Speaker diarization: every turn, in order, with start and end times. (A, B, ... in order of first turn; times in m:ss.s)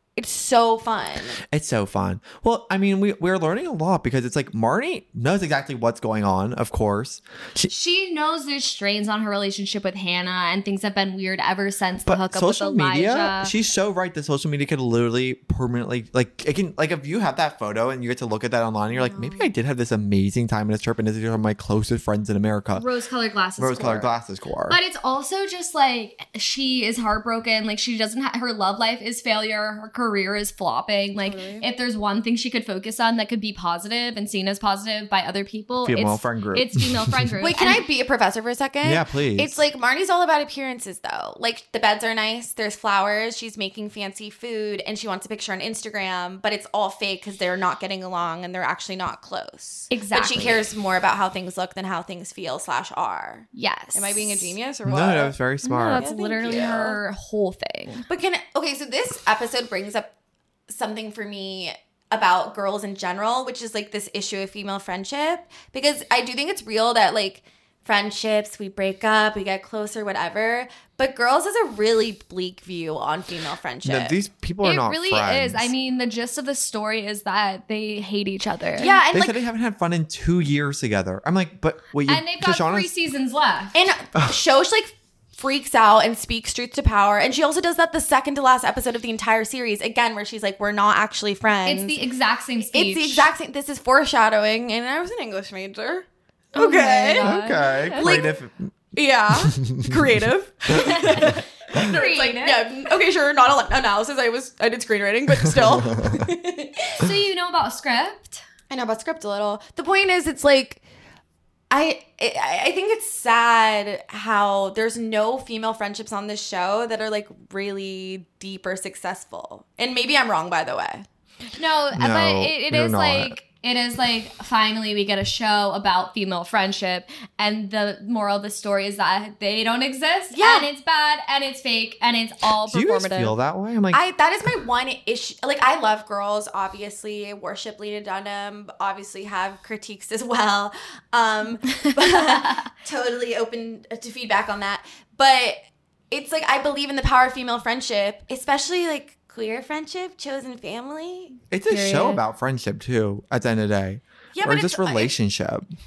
0:00.2-0:01.4 A
0:01.4-0:07.7 B
0:07.7-0:13.5 C
0:12.1-0:22.9 B
0:18.9-0:19.5 A
0:22.8-0:24.1 C
0:23.6-0:24.8 B
0:24.7-0:37.8 C
0:31.2-0:31.6 A
0:35.8-0:37.3 B
0:37.4-0:57.0 A
0:38.8-0:39.6 B
0:49.9-0:50.7 C
0:53.5-0:54.6 C
0:54.8-0:56.1 B
0:55.6-0:58.1 C
0:58.1-1:00.1 A
1:00.7-1:14.2 A
1:13.8-1:15.7 B
1:14.6-1:19.0 C
1:18.8-1:19.4 A
1:19.1-1:22.9 B
1:22.1-1:23.8 C
1:23.7-1:32.0 A
1:31.6-1:33.3 C
1:32.7-1:37.3 A
1:36.6-1:38.2 C
1:37.2-1:38.7 B
1:38.0-1:38.4 A
1:39.0-1:47.0 A
1:39.4-1:40.2 B
1:40.8-1:42.7 C
1:41.2-1:41.8 B
1:45.5-1:46.2 B
1:46.9-1:48.4 C
1:48.7-1:50.8 A
1:51.7-2:01.0 A
2:01.6-2:13.4 C
2:02.0-2:03.4 B
2:10.3-2:10.7 A
2:12.7-2:14.0 B
2:13.9-2:25.6 A
2:21.8-2:22.6 C
2:26.1-2:31.4 A
2:31.5-2:35.7 B
2:31.7-2:32.2 C
2:34.4-2:35.1 A